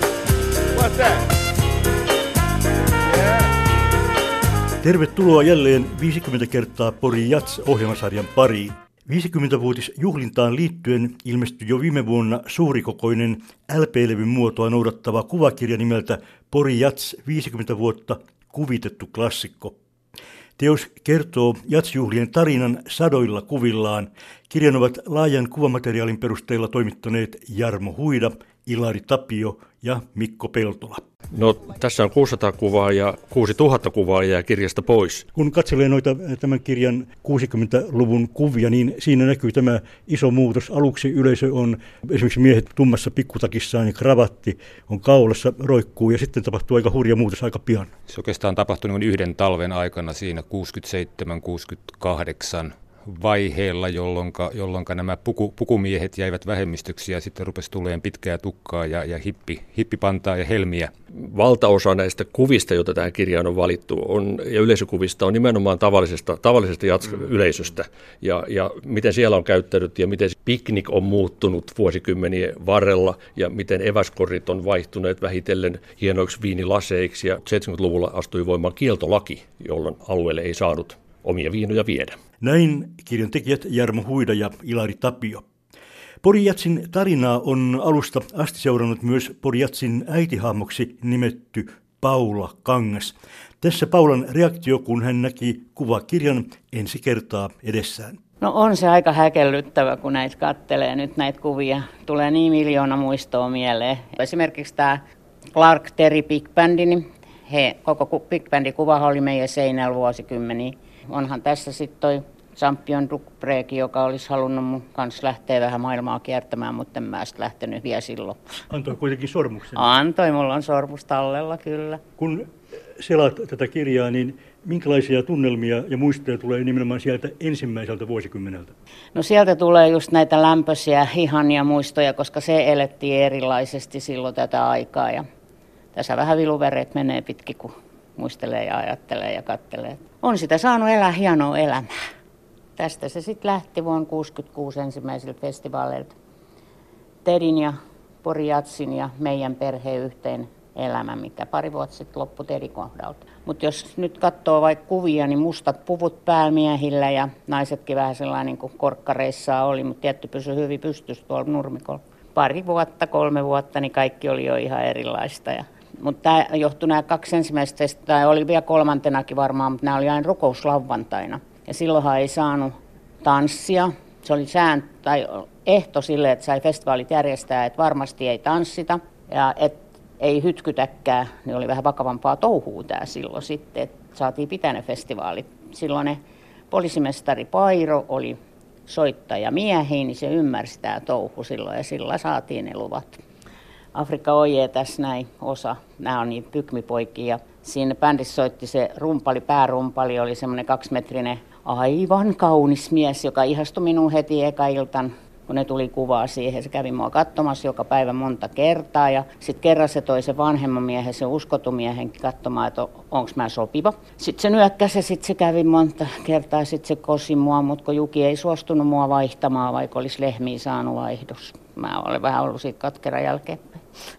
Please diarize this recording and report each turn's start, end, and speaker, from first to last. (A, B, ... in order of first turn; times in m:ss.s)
0:04.8-0:19.8 A
0:20.6-0:31.0 A
0:31.3-0:35.2 B
0:35.3-0:47.9 A
0:48.1-1:00.9 C
1:01.2-1:22.1 B
1:22.4-1:25.4 A
1:26.2-1:38.2 A
1:38.4-1:45.0 D
1:45.5-1:58.4 D
1:58.7-1:59.8 A
1:59.7-2:02.0 D
2:02.2-2:02.5 A
2:03.0-2:08.7 A
2:09.1-2:15.2 D
2:15.9-2:21.9 D
2:22.8-2:26.1 D
2:27.2-3:06.2 D
3:06.7-3:08.4 D
3:08.9-3:13.2 D
3:13.9-3:43.8 D